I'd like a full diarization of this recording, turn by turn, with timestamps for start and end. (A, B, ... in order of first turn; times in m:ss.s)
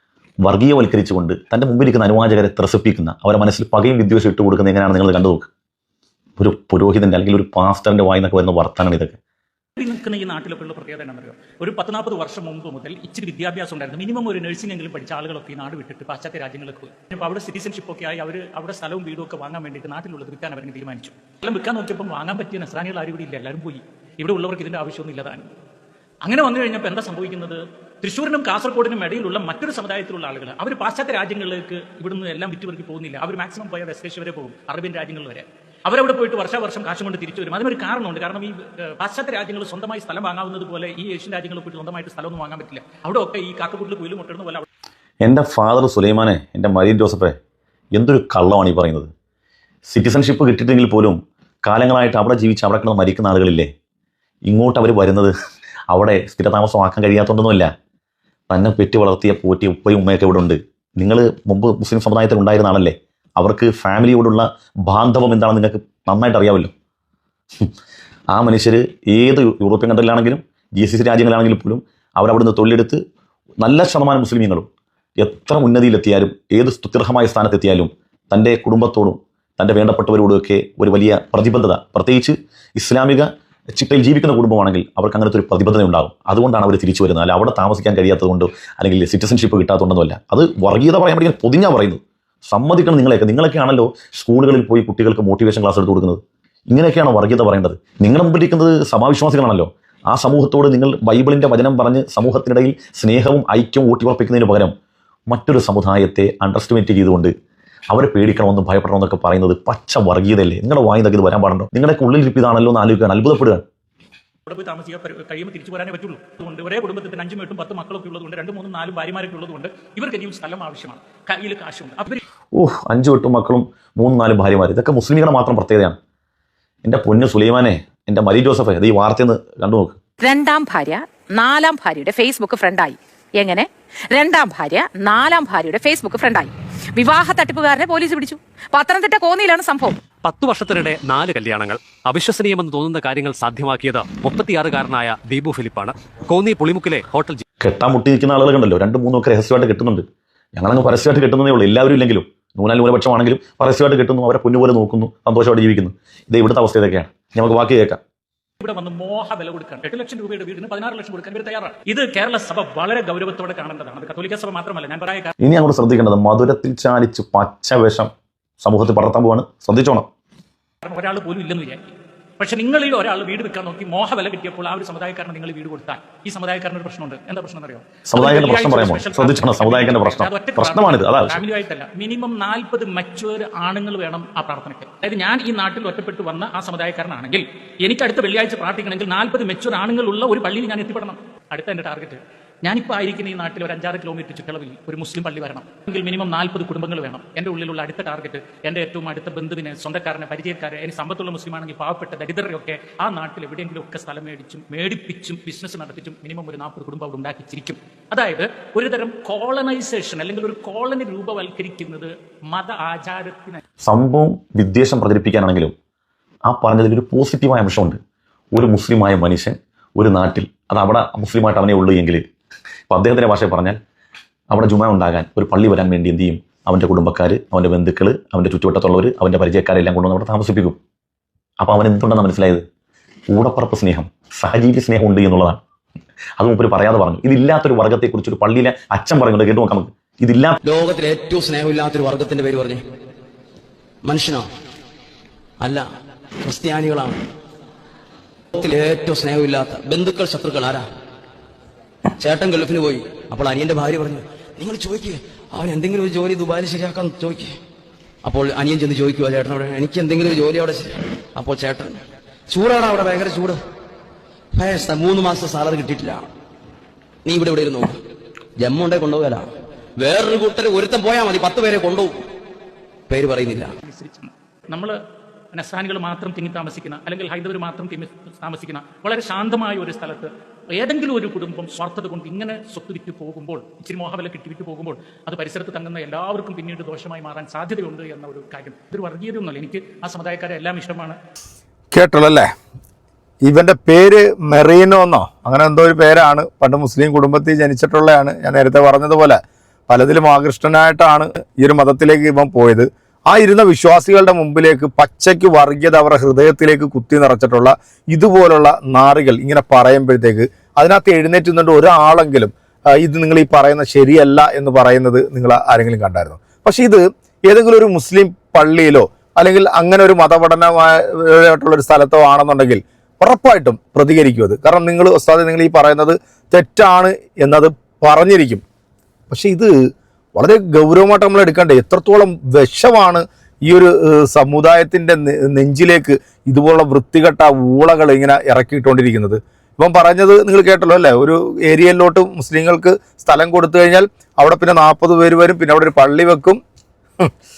0:00.4-0:05.5 A
0:06.4-0:09.2 A
0:09.8-0:25.5 B
0:26.2-0:44.6 B
0:45.2-0:47.4 A
0:48.0-0:49.1 A
0:49.9-0:53.7 A
0:54.4-0:55.3 A
0:55.9-0:57.7 A
0:58.5-1:06.7 A
1:08.3-1:13.0 A
1:13.6-1:14.7 A
1:15.2-1:44.7 A
1:45.3-1:47.3 A
1:47.9-1:53.6 A
1:54.5-2:02.2 B
2:02.5-2:06.0 A
2:06.8-2:10.0 A
2:10.2-2:20.0 C
2:20.2-2:27.4 D
2:27.6-2:38.0 A
2:38.6-2:45.3 B
2:45.4-2:48.1 A
2:48.6-2:50.1 A
2:50.8-3:33.6 B
2:58.1-3:01.4 A
3:33.8-3:35.8 A
3:36.5-3:38.0 A
3:38.5-3:42.2 A
3:42.9-3:43.8 A
3:44.5-3:50.8 A
3:51.6-3:52.6 A
3:53.3-3:55.6 A
3:56.4-4:00.5 A
4:00.6-4:02.8 E
4:04.0-4:04.5 E
4:05.6-4:05.9 E
4:06.4-4:07.2 E
4:08.5-4:10.9 E
4:12.2-4:17.6 E
4:18.2-4:23.6 E
4:24.5-4:26.2 E
4:27.2-4:28.0 E
4:28.6-4:29.4 E
4:30.0-4:32.2 E
4:33.1-4:33.7 E
4:33.8-4:34.9 B
4:35.5-4:51.2 B
4:51.9-4:52.5 F
4:53.4-5:28.6 F
5:29.3-5:29.7 F
5:30.4-5:46.6 F